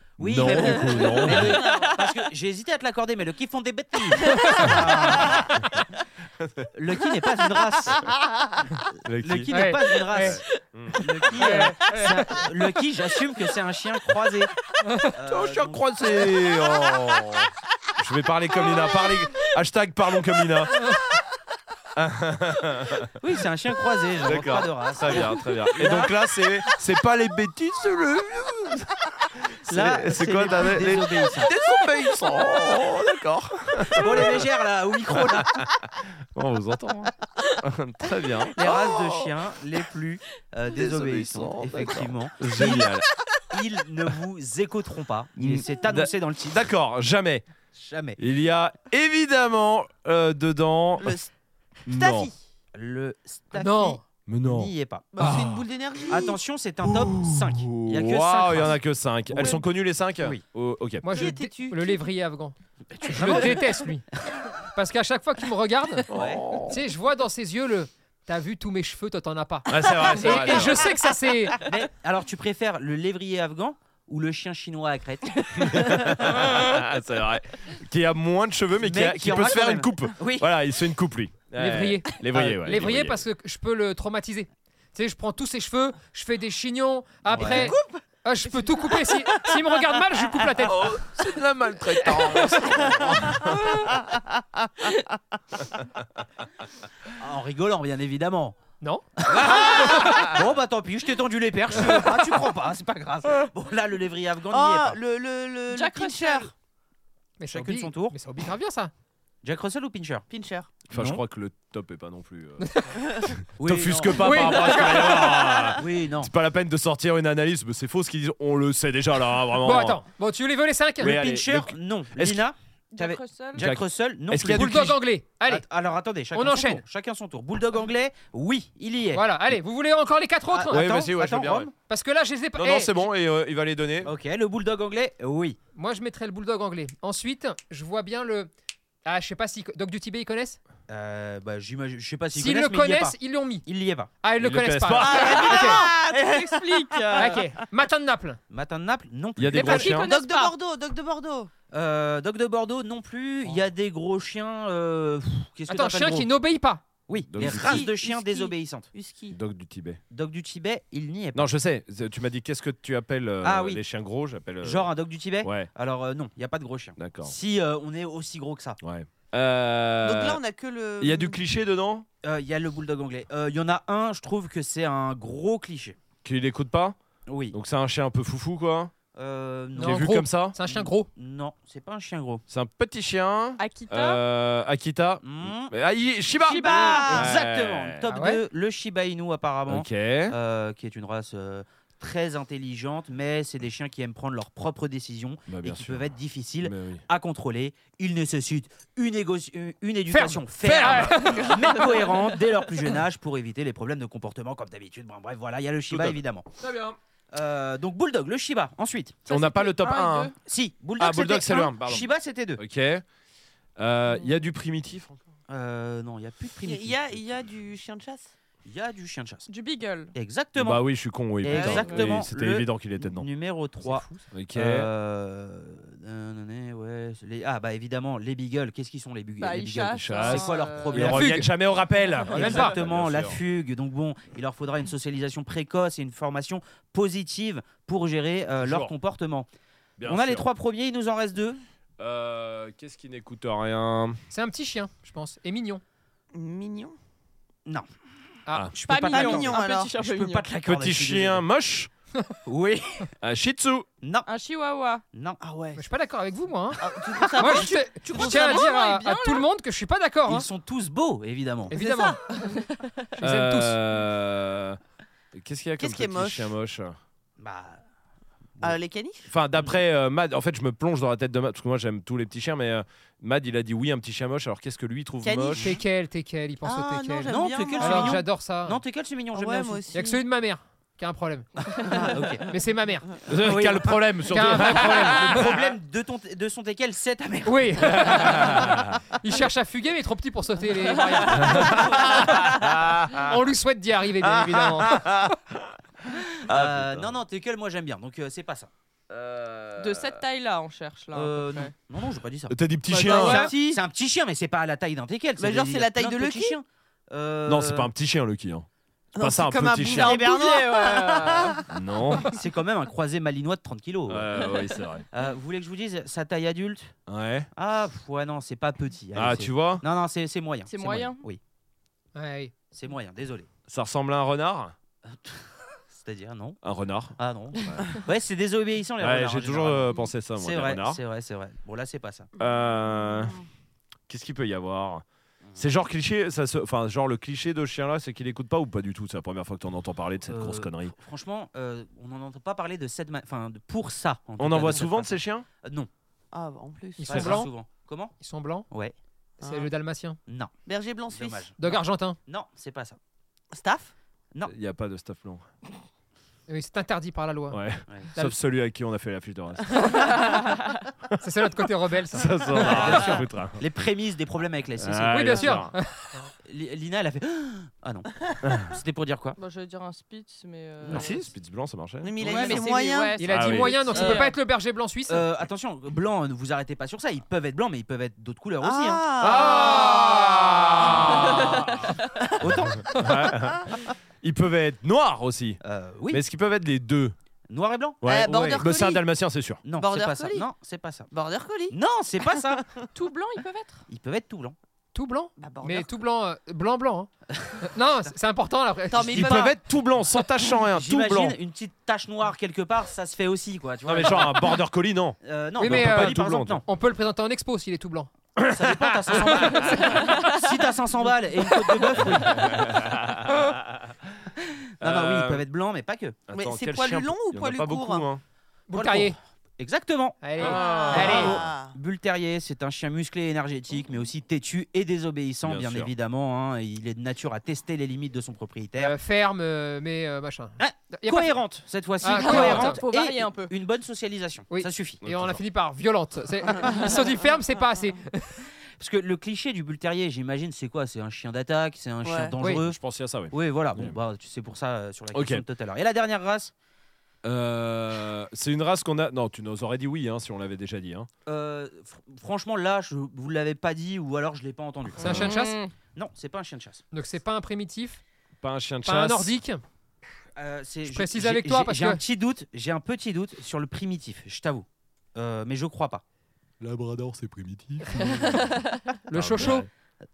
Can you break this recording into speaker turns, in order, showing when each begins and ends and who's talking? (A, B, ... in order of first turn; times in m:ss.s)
0:00.2-0:05.6 A
0:00.2-0:01.6 B
0:00.6-0:01.9 C
0:01.0-0:01.9 D
0:04.5-0:04.8 E
0:05.2-0:05.4 D
0:06.4-0:06.7 B
0:06.7-0:08.1 A
0:08.1-0:08.6 D
0:09.0-0:11.1 B
0:09.2-0:10.4 A
0:09.5-0:10.4 E
0:11.0-0:14.5 A
0:11.4-0:12.5 E
0:14.8-0:15.1 E
0:15.1-0:16.3 A
0:15.2-0:20.8 B
0:22.0-0:23.1 B
0:23.2-0:26.1 A
0:24.2-0:34.5 B
0:29.7-0:31.5 A
0:33.9-0:35.6 A
0:35.1-0:39.3 B
0:38.5-0:43.0 A
0:40.7-0:43.1 B
0:43.5-0:46.6 A
0:45.4-0:47.5 B
0:47.8-0:48.2 A
0:48.2-0:51.2 B
0:51.0-0:51.3 D
0:51.9-0:52.3 B
0:52.0-0:55.3 A
0:53.6-0:54.0 E
0:54.3-0:55.6 B
0:55.1-0:56.4 D
0:56.1-0:58.8 A
0:56.8-1:01.2 B
0:59.3-0:59.6 A
1:01.0-1:04.1 E
1:01.1-1:02.0 D
1:02.9-1:03.8 A
1:03.1-1:03.5 B
1:04.8-1:06.1 E
1:06.1-1:06.8 B
1:06.1-1:06.4 A
1:06.6-1:11.6 E
1:09.7-1:10.9 B
1:10.4-1:10.6 A
1:11.6-1:16.4 A
1:15.6-1:23.2 B
1:18.8-1:20.5 A
1:21.6-1:31.0 E
1:27.3-1:27.8 A
1:27.4-1:28.0 D
1:30.6-1:34.0 B
1:32.1-1:32.6 E
1:37.2-1:38.6 A
1:39.2-1:45.0 A
1:40.0-1:40.3 B
1:44.5-1:46.5 D
1:45.7-1:46.5 C
1:47.4-1:48.9 E
1:47.5-1:48.2 A
1:49.4-1:50.3 A
1:50.3-1:50.8 D
1:50.9-1:51.2 A
1:50.9-1:52.7 B
1:52.6-1:53.4 E
1:53.3-2:00.0 B
1:53.6-1:54.8 A
1:54.2-1:55.2 E
1:55.8-1:56.3 A
1:59.6-2:01.2 E
2:01.0-2:02.4 B
2:01.0-2:09.2 A
2:02.9-2:03.7 C
2:03.6-2:05.0 B
2:04.5-2:05.6 E
2:06.3-2:06.8 E
2:09.1-2:10.9 E
2:10.5-2:11.7 A
2:10.7-2:11.7 B
2:11.9-2:13.0 E
2:12.6-2:14.1 B
2:14.0-2:15.6 A
2:15.8-2:18.5 E
2:19.0-2:20.6 E
2:20.9-2:24.1 A
2:22.3-2:23.7 E
2:24.2-2:25.8 E
2:24.4-2:25.4 B
2:25.0-2:27.4 D
2:25.2-2:27.4 C
2:27.2-2:28.4 E
2:28.5-2:30.0 A
2:29.4-2:30.1 B
2:29.6-2:30.6 C
2:29.9-2:31.5 D
2:31.7-2:36.3 A
2:35.7-2:36.8 E
2:37.1-2:38.9 A
2:37.3-2:37.9 B
2:37.4-2:39.4 D
2:39.3-2:40.0 B
2:40.1-2:41.5 A
2:41.3-2:44.9 B
2:43.4-2:43.8 A
2:44.6-2:48.8 A
2:45.4-2:45.7 B
2:47.0-2:47.4 B
2:48.8-2:50.4 B
2:50.0-2:51.4 D
2:51.0-2:52.1 B
2:52.2-2:56.0 A
2:56.2-2:57.0 B
2:57.3-2:57.6 A
2:57.5-2:58.9 B
2:59.1-3:02.4 A
2:59.8-3:01.1 E
2:59.8-3:00.6 B
3:02.5-3:08.1 B
3:03.6-3:04.2 C
3:05.2-3:05.7 A
3:06.4-3:26.5 A
3:06.6-3:07.4 D
3:06.6-3:07.3 C
3:08.1-3:08.4 E
3:09.7-3:10.4 B
3:15.5-3:17.0 B
3:20.1-3:21.8 E
3:20.8-3:21.3 B
3:21.6-3:22.2 C
3:25.9-3:27.0 B
3:27.3-3:29.2 A
3:29.3-3:30.4 C
3:29.3-3:30.3 B
3:30.4-3:32.6 A
3:31.0-3:33.0 B
3:33.8-3:35.2 B
3:35.5-3:37.2 A
3:36.6-3:38.3 D
3:38.6-3:39.5 A
3:39.5-3:40.2 C
3:40.2-3:51.4 A
3:40.6-3:43.3 B
3:41.5-3:41.9 D
3:41.6-3:42.1 C
3:44.3-3:44.9 B
3:49.4-3:51.2 C
3:49.9-3:53.4 B
3:51.0-3:51.5 E
3:52.3-3:52.8 E
3:52.3-3:59.5 A
3:58.6-3:58.9 B
4:00.0-4:00.5 B
4:00.0-4:01.6 A
4:02.0-4:04.2 B
4:04.3-4:05.8 E
4:06.3-4:07.0 D
4:08.7-4:11.4 A
4:08.8-4:10.5 C
4:09.0-4:09.9 D
4:10.6-4:11.9 B
4:12.5-4:13.1 A
4:13.2-4:13.9 B
4:14.0-4:14.3 A
4:14.3-4:15.0 C
4:15.1-4:15.4 A
4:15.4-4:15.8 D
4:15.8-4:16.8 E
4:16.8-4:18.7 D
4:17.4-4:20.5 E
4:17.4-4:19.4 C
4:20.3-4:21.8 A
4:21.7-4:22.2 E
4:21.7-4:22.5 D
4:23.2-4:23.8 E
4:23.2-4:24.8 B
4:25.3-4:27.0 B
4:25.8-4:26.5 D
4:27.4-4:27.8 A
4:28.6-4:29.3 D
4:29.3-4:35.7 B
4:35.2-4:35.7 D
4:35.6-4:38.8 E
4:36.6-4:38.2 D
4:37.3-4:39.9 A
4:39.3-4:40.2 D
4:39.9-4:41.7 E
4:41.9-4:42.1 D
4:41.9-4:42.5 A
4:42.5-4:43.1 E
4:43.3-4:45.8 B
4:43.4-4:48.5 A
4:44.3-4:45.4 E
4:47.4-4:52.2 E
4:48.0-4:49.0 B
4:51.3-4:53.4 B
4:53.2-4:55.1 E
4:54.2-4:57.2 B
4:56.4-4:58.7 A
4:59.1-5:00.2 B
4:59.8-5:01.7 C
5:01.1-5:07.9 A
5:02.5-5:03.5 B
5:02.9-5:03.5 C
5:02.9-5:03.8 D
5:05.4-5:06.6 D
5:07.5-5:08.7 B
5:09.2-5:11.7 D
5:09.2-5:10.2 B
5:09.9-5:11.6 C
5:11.7-5:12.3 B
5:12.3-5:14.6 A
5:14.1-5:15.0 B
5:14.4-5:14.7 C
5:15.1-5:17.0 A
5:17.1-5:17.5 B
5:17.6-5:21.4 A
5:19.1-5:19.8 B
5:20.7-5:21.2 C
5:22.2-5:22.5 E
5:22.7-5:23.5 A
5:23.7-5:24.7 B
5:25.1-5:26.6 A
5:26.6-5:27.9 B
5:27.2-5:32.3 A
5:29.0-5:31.0 B
5:32.4-5:33.4 B
5:34.1-5:35.0 B
5:35.6-5:41.0 B
5:40.3-5:45.9 A
5:44.4-5:45.5 B
5:46.3-5:47.3 D
5:47.0-5:47.5 E
5:47.1-5:48.2 A
5:48.2-5:48.7 E
5:48.7-5:49.0 A
5:49.4-5:49.7 D
5:49.4-5:50.2 E
5:50.3-5:50.6 A
5:50.7-5:51.5 D
5:51.1-5:53.0 A
5:51.6-5:52.2 E
5:53.5-5:53.9 D
5:54.4-5:55.5 B
5:56.5-5:57.6 E
5:57.5-6:00.2 B
6:01.2-6:03.1 E
6:02.1-6:03.6 B
6:02.6-6:05.6 A
6:04.8-6:05.8 B
6:05.1-6:06.3 E
6:06.4-6:08.1 A
6:08.4-6:08.8 B
6:08.6-6:09.4 A
6:09.4-6:11.3 C
6:10.8-6:11.2 A
6:10.9-6:12.7 B
6:12.0-6:13.2 D
6:12.2-6:14.4 C
6:12.2-6:12.6 A
6:13.2-6:15.2 E
6:13.3-6:13.8 B
6:15.1-6:19.0 A
6:18.6-6:21.4 D
6:19.2-6:27.2 B
6:22.2-6:22.4 D
6:22.4-6:23.0 A
6:25.6-6:26.2 A
6:27.5-6:28.6 A
6:28.0-6:29.6 B
6:28.0-6:29.0 D
6:29.6-6:31.1 A
6:29.8-6:30.5 D
6:31.1-6:32.9 D
6:31.7-6:32.7 A
6:33.0-6:33.8 C
6:33.9-6:34.6 A
6:34.9-6:39.5 E
6:35.4-6:35.9 D
6:38.9-6:39.6 D
6:39.1-6:41.4 B
6:40.7-6:44.6 A
6:43.8-6:46.6 B
6:45.2-6:46.7 A
6:45.6-6:48.1 E
6:48.4-6:49.8 B
6:48.5-6:52.7 A
6:52.2-6:53.9 B
6:54.8-6:55.4 B
6:54.8-6:56.2 A
6:56.3-6:58.2 B
6:56.3-6:58.1 D
6:58.7-6:59.2 E
6:58.7-7:09.0 A
7:00.2-7:01.4 E
7:00.4-7:01.4 B
7:00.4-7:01.8 D
7:05.4-7:05.9 B
7:08.8-7:11.4 E
7:10.6-7:15.0 A
7:12.0-7:12.8 E
7:12.0-7:13.5 C
7:14.5-7:18.5 E
7:15.0-7:15.4 B
7:18.8-7:22.8 A
7:22.0-7:22.4 D
7:22.6-7:24.0 B
7:23.3-7:26.5 A
7:25.1-7:25.4 B
7:27.2-7:31.1 B
7:31.3-7:35.2 A
7:35.0-7:35.6 E
7:35.0-7:35.3 B
7:35.0-7:35.7 C
7:36.0-7:36.8 A
7:36.9-7:38.0 E
7:38.4-7:39.4 B
7:38.8-7:39.6 E
7:40.4-7:46.0 A
7:40.9-7:42.0 E
7:46.6-7:49.7 B
7:49.1-7:49.7 E